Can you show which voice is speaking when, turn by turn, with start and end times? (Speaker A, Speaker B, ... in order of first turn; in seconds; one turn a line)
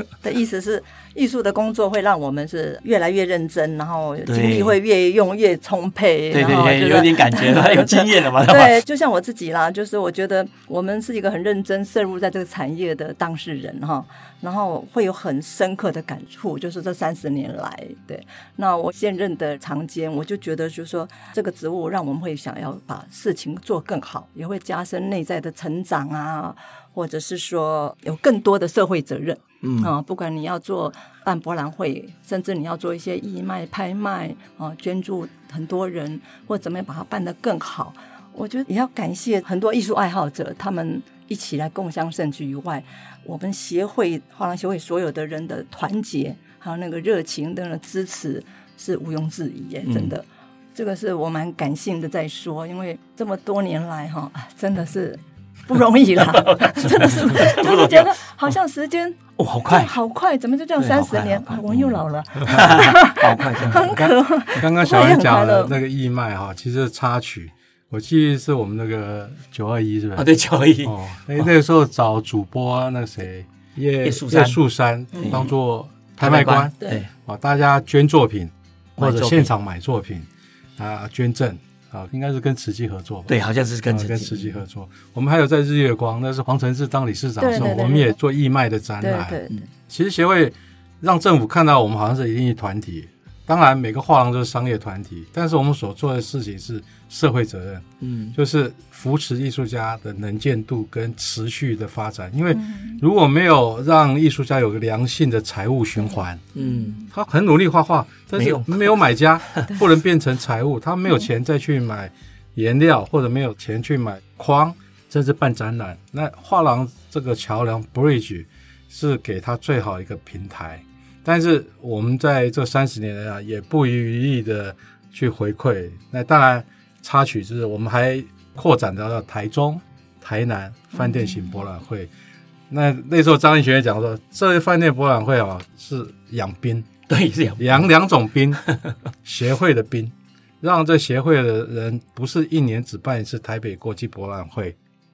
Speaker A: 0.2-65.8
Speaker B: 4.2-4.8
Speaker B: 6.3-8.8
Speaker B: 29.6-29.9
Speaker B: 49.8-50.1
Speaker B: 56.2-58.5
Speaker B: 59.4-59.9
Speaker B: 60.8-64.0
Speaker C: 63.8-70.3
Speaker B: 70.2-71.5
Speaker C: 70.8-83.3
Speaker B: 74.0-74.6
Speaker A: 75.1-75.4
Speaker B: 75.2-75.5
Speaker B: 76.2-77.1
Speaker B: 79.0-79.5
Speaker B: 83.3-84.6
Speaker C: 83.9-106.4
Speaker A: 87.4-88.1
Speaker B: 87.5-87.9
Speaker A: 89.0-89.6
Speaker B: 98.0-98.3
Speaker A: 102.6-103.0
Speaker B: 106.5-107.0
Speaker A: 106.6-107.0
Speaker C: 107.1-132.1
Speaker B: 108.3-108.9
Speaker A: 130.9-131.6
Speaker C: 132.7-136.9
Speaker B: 137.1-137.9
Speaker C: 137.6-138.6
Speaker B: 138.6-138.9
Speaker C: 139.2-144.8